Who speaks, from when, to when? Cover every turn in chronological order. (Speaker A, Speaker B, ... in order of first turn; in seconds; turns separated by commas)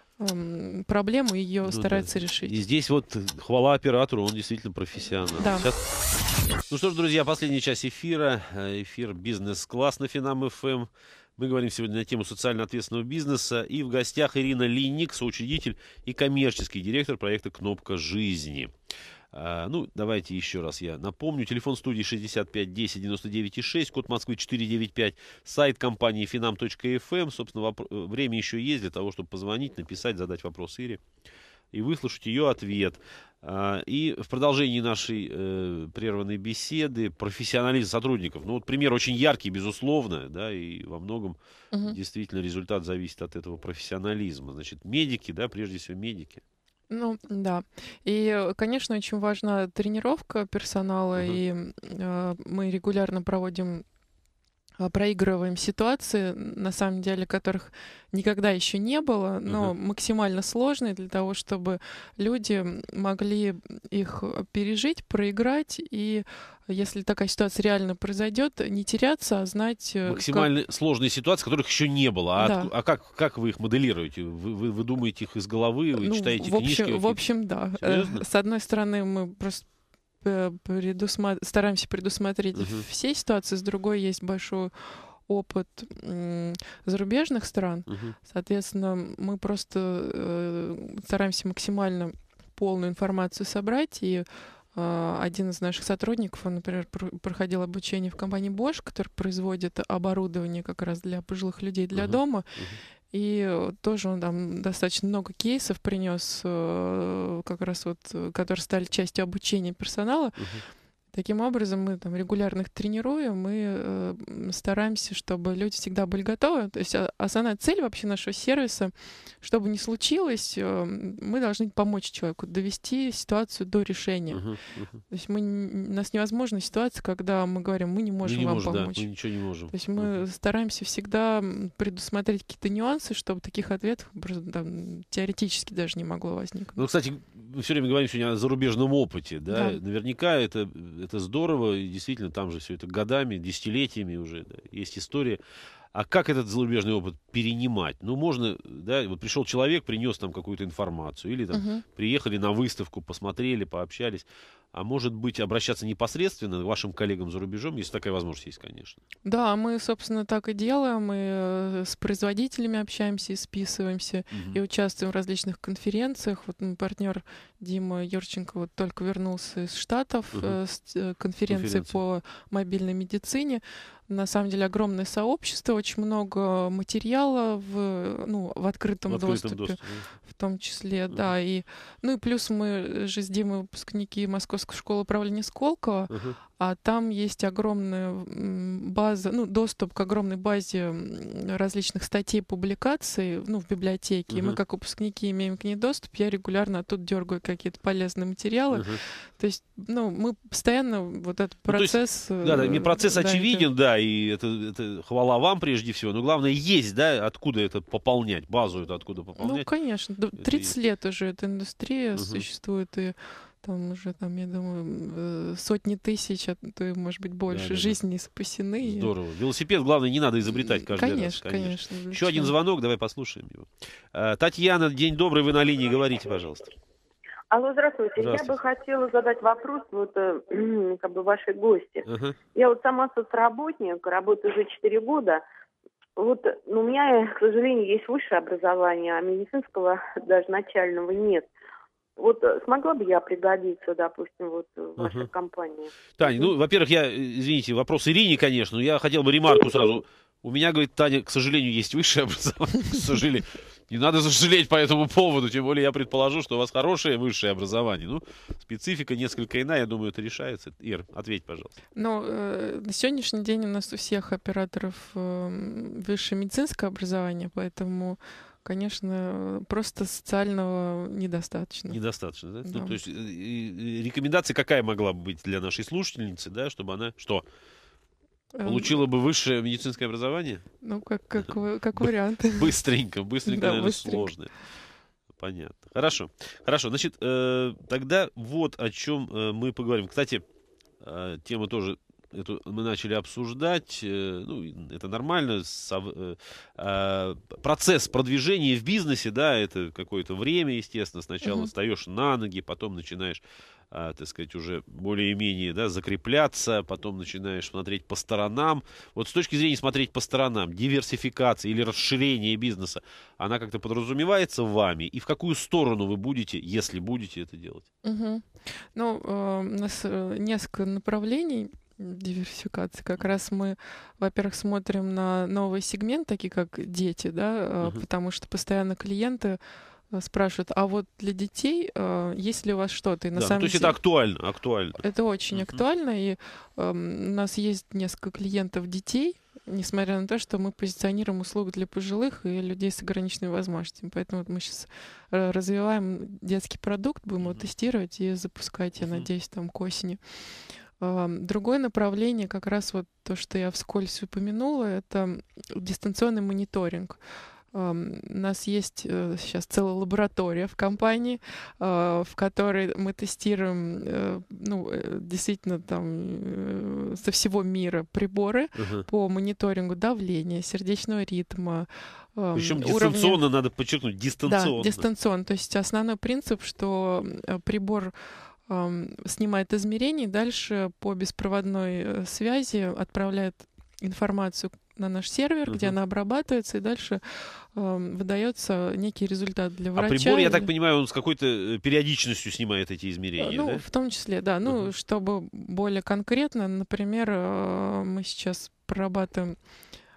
Speaker A: 0.2-2.5, Speaker B: 1.6-5.8, Speaker A: 5.4-5.7, Speaker B: 6.7-18.7, Speaker B: 19.3-31.0, Speaker B: 31.7-46.4, Speaker A: 41.7-42.0, Speaker A: 46.9-53.8, Speaker A: 54.8-70.5, Speaker B: 59.5-59.7, Speaker B: 70.0-77.2, Speaker A: 72.3-72.7, Speaker A: 75.9-79.7, Speaker B: 77.8-78.2, Speaker A: 80.2-102.5, Speaker B: 82.5-82.8, Speaker B: 87.9-88.2, Speaker B: 101.9-102.8, Speaker A: 103.1-110.4, Speaker B: 110.4-110.6, Speaker A: 111.1-124.4, Speaker B: 124.3-125.0, Speaker A: 125.1-129.1, Speaker B: 128.2-130.2, Speaker A: 129.7-136.9, Speaker B: 136.8-145.4, Speaker A: 139.5-139.8, Speaker B: 145.9-159.0, Speaker A: 151.5-151.8, Speaker A: 159.2-203.7, Speaker B: 164.3-164.6, Speaker B: 171.5-172.0, Speaker B: 179.1-180.1, Speaker B: 186.1-186.4, Speaker B: 194.3-194.6, Speaker B: 198.7-199.0, Speaker B: 201.7-209.7, Speaker A: 209.4-219.1, Speaker B: 210.4-210.7, Speaker B: 212.1-212.4, Speaker B: 217.5-218.0, Speaker B: 218.8-226.7, Speaker A: 220.5-222.5, Speaker C: 227.5-235.4, Speaker B: 228.2-228.6, Speaker B: 232.1-232.3, Speaker C: 236.2-241.5, Speaker C: 242.2-245.9, Speaker B: 245.0-245.3, Speaker B: 246.2-261.7, Speaker A: 261.9-272.0, Speaker B: 271.9-277.4, Speaker A: 272.6-273.0, Speaker A: 278.5-278.9, Speaker B: 278.6-280.6, Speaker A: 280.8-282.7, Speaker B: 281.4-284.5, Speaker A: 283.4-284.3, Speaker B: 285.4-290.4, Speaker B: 291.0-317.9, Speaker A: 301.4-301.7, Speaker A: 318.0-329.6, Speaker A: 330.1-333.9, Speaker B: 333.3-335.0, Speaker A: 335.0-350.2, Speaker B: 335.5-335.8, Speaker B: 347.4-347.6, Speaker B: 349.0-349.2, Speaker A: 351.0-357.2, Speaker A: 357.7-373.4, Speaker B: 368.8-369.1, Speaker B: 372.5-375.0, Speaker A: 374.4-378.1, Speaker A: 378.7-390.7, Speaker B: 385.7-385.9, Speaker B: 389.9-393.8, Speaker A: 393.4-399.6